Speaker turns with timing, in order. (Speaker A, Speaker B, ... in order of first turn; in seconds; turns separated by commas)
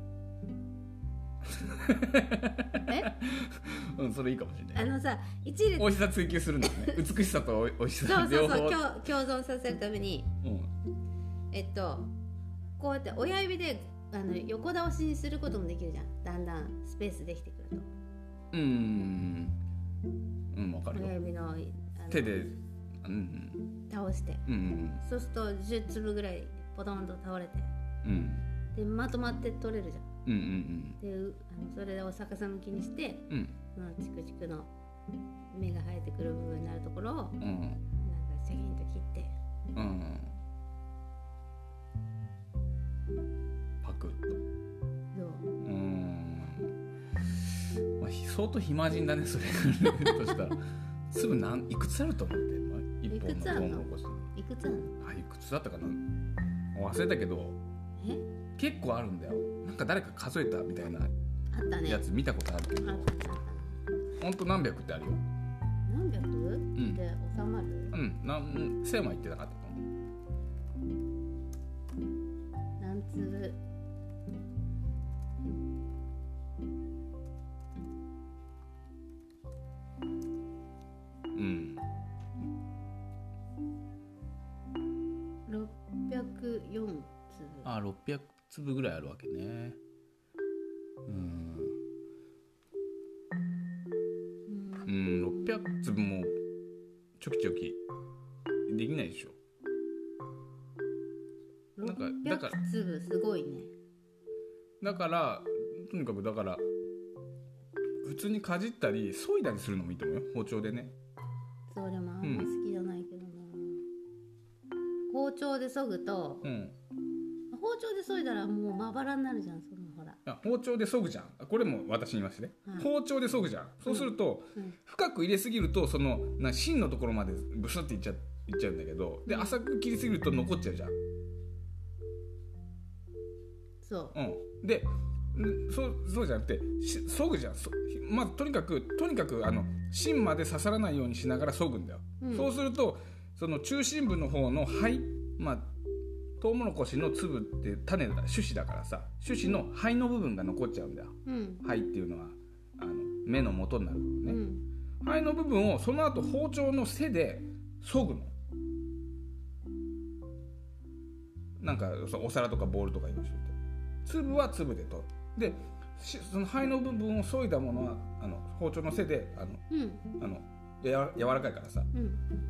Speaker A: 1.4-4.9, Speaker B: 4.7-5.9, Speaker A: 5.8-8.8, Speaker B: 6.6-7.0, Speaker B: 8.0-10.3, Speaker A: 10.4-10.7, Speaker B: 11.5-12.1, Speaker B: 12.8-17.9, Speaker A: 18.5-19.6, Speaker A: 20.5-21.1, Speaker B: 20.9-22.5, Speaker A: 22.1-23.6, Speaker B: 23.9-24.4, Speaker A: 24.4-25.0, Speaker B: 25.0-27.7, Speaker A: 28.0-28.4, Speaker B: 28.7-30.1, Speaker A: 30.2-31.0, Speaker B: 31.0-34.7, Speaker A: 33.3-33.5, Speaker B: 35.5-37.4, Speaker A: 37.4-37.8, Speaker B: 38.0-39.3, Speaker A: 39.7-40.3, Speaker A: 43.8-44.4, Speaker B: 45.1-45.5, Speaker A: 45.6-46.7, Speaker A: 47.4-54.3, Speaker B: 53.1-55.0, Speaker A: 55.0-56.0, Speaker A: 56.7-57.6, Speaker B: 58.0-58.2, Speaker A: 58.5-61.1, Speaker B: 61.5-62.0, Speaker A: 61.8-63.1, Speaker B: 62.8-63.8, Speaker A: 64.2-65.2, Speaker B: 65.8-67.9, Speaker A: 66.7-67.0, Speaker A: 67.9-69.9, Speaker B: 72.8-73.6, Speaker A: 81.3-81.8, Speaker B: 85.5-87.7, Speaker A: 87.6-89.8, Speaker A: 91.0-91.8, Speaker B: 94.5-95.4, Speaker A: 94.8-96.3, Speaker A: 97.2-97.8, Speaker A: 98.7-99.3, Speaker B: 101.8-103.7, Speaker A: 101.8-102.6, Speaker A: 104.8-106.6, Speaker A: 108.0-110.9, Speaker B: 111.7-113.8, Speaker A: 112.2-112.5, Speaker B: 115.1-116.5, Speaker A: 116.4-116.8, Speaker B: 117.5-120.2, Speaker A: 120.2-130.9, Speaker B: 123.8-124.8, Speaker B: 129.2-129.6, Speaker B: 133.8-134.2, Speaker A: 134.1-145.7, Speaker B: 142.2-142.5, Speaker A: 146.4-154.4, Speaker B: 151.2-151.6, Speaker B: 154.2-154.6, Speaker A: 155.0-158.3, Speaker A: 161.6-169.6, Speaker B: 169.7-170.0, Speaker A: 170.2-171.9, Speaker B: 171.9-172.2